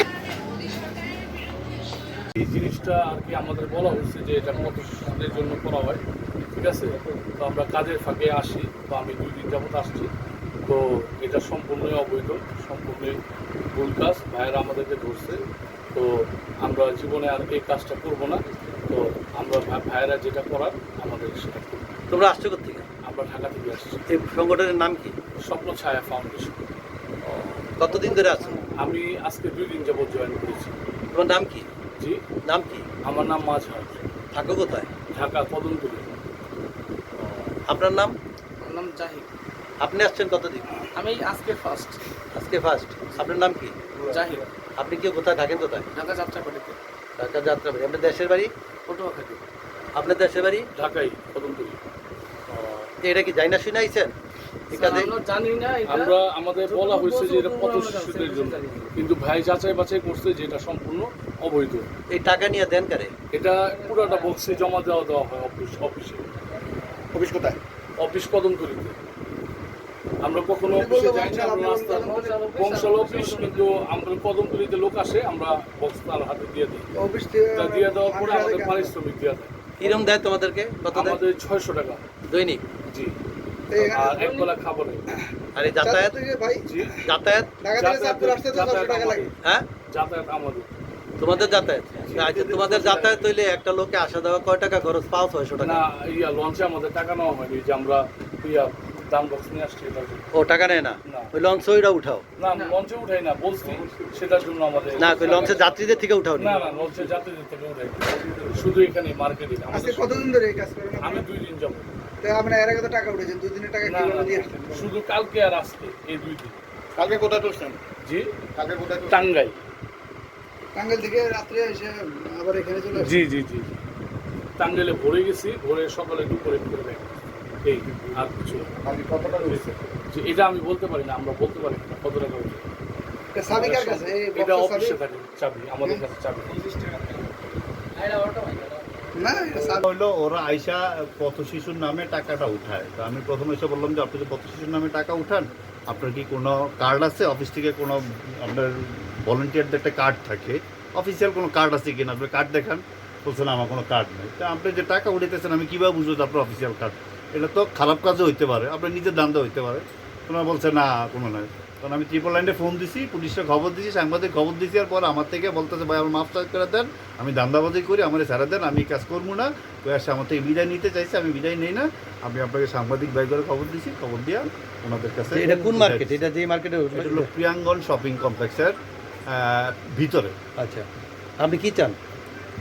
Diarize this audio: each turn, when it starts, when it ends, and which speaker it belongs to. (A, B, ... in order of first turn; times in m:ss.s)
0:02.3-0:10.1 A
0:04.9-0:05.6 B
0:10.6-0:13.2 A
0:13.7-0:15.4 A
0:15.9-0:22.0 A
0:22.1-0:22.8 C
0:23.0-0:24.1 A
0:24.1-0:25.1 C
0:25.4-0:26.6 A
0:27.2-0:28.6 C
0:28.7-0:30.8 A
0:31.1-0:31.7 C
0:32.4-0:32.9 C
0:33.0-0:34.0 A
0:34.3-0:34.9 C
0:35.1-0:36.2 A
0:37.2-0:38.1 C
0:38.6-0:39.3 B
0:39.8-0:40.8 C
0:40.9-0:42.0 B
0:42.3-0:43.8 C
0:44.0-0:44.4 B
0:44.8-0:45.8 C
0:45.9-0:46.8 B
0:47.2-0:48.5 C
0:48.9-0:49.4 B
0:49.9-0:50.7 C
0:50.8-0:51.8 A
0:52.5-0:54.1 C
0:54.7-0:55.1 C
0:54.7-0:58.9 B
0:55.8-1:01.9 A
1:02.1-1:03.1 C
1:03.3-1:06.2 A
1:03.6-1:04.7 B
1:07.2-1:07.6 D
1:08.0-1:09.0 A
1:10.2-1:16.9 A
1:10.7-1:12.3 E
1:11.8-1:13.8 B
1:16.9-1:18.9 E
1:17.5-1:20.1 A
1:19.8-1:21.2 C
1:20.9-1:22.0 A
1:22.3-1:22.6 C
1:22.9-1:23.2 A
1:23.7-1:24.2 E
1:23.8-1:25.1 A
1:24.1-1:24.5 B
1:25.1-1:26.8 E
1:25.5-1:26.1 C
1:26.6-1:27.0 A
1:27.0-1:27.5 C
1:27.6-1:29.3 E
1:27.7-1:29.3 A
1:29.9-1:30.7 A
1:31.2-1:35.8 C
1:32.0-1:33.3 A
1:35.6-1:40.3 A
1:40.3-1:42.2 C
1:42.4-1:45.8 A
1:42.5-1:42.8 B
1:44.9-1:46.6 C
1:46.4-1:50.3 A
1:49.7-1:51.3 E
1:51.0-1:51.9 A
1:52.2-1:54.9 E
1:53.8-1:56.5 A
1:57.0-1:57.8 D
1:58.0-1:58.3 A
1:58.6-1:59.1 D
1:58.9-1:59.6 A
2:00.7-2:03.2 E
2:02.9-2:03.7 A
2:04.6-2:12.7 A
2:08.9-2:09.4 D
2:13.3-2:15.0 E
2:13.5-2:16.6 A
2:16.5-2:17.3 B
2:17.9-2:19.5 B
2:19.2-2:19.8 E
2:19.5-2:56.2 F
2:55.3-2:57.3 C
2:56.9-2:58.8 F
2:59.3-3:00.3 F
3:00.6-3:00.9 C
3:01.4-3:02.0 C